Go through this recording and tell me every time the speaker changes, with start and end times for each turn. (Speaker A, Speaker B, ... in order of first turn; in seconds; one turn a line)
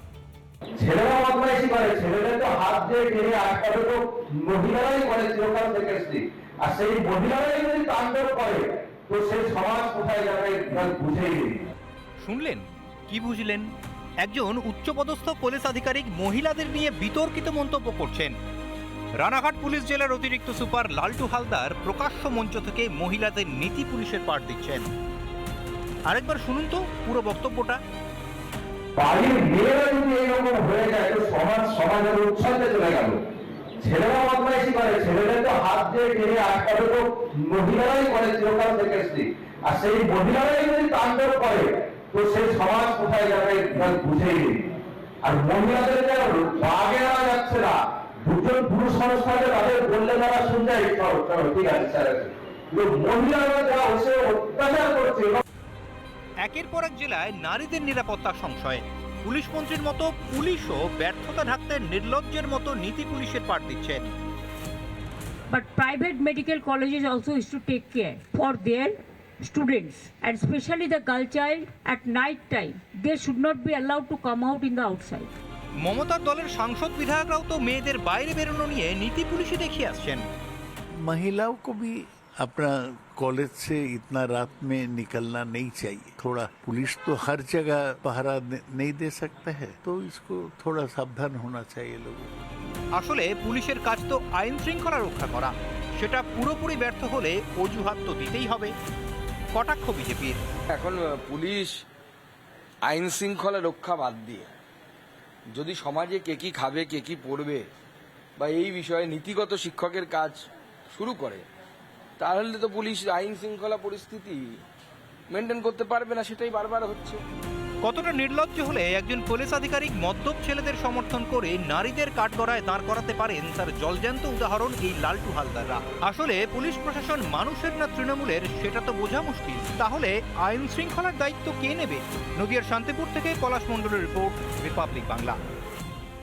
Speaker A: 0.7-11.6
Speaker B: 12.2-13.7
Speaker B: 14.2-18.3
Speaker B: 19.2-24.9
Speaker B: 26.1-27.8
Speaker A: 28.9-33.2
Speaker A: 33.8-44.6
Speaker A: 45.2-55.4
Speaker B: 56.4-64.1
Speaker C: 65.5-75.3
Speaker B: 75.8-80.3
Speaker D: 81.0-92.3
Speaker B: 93.0-98.7
Speaker B: 99.5-100.4
Speaker E: 100.7-101.8
Speaker E: 102.8-104.5
Speaker E: 105.5-107.7
Speaker E: 108.4-111.5
Speaker E: 112.2-114.6
Speaker E: 115.3-117.2
Speaker B: 117.8-135.4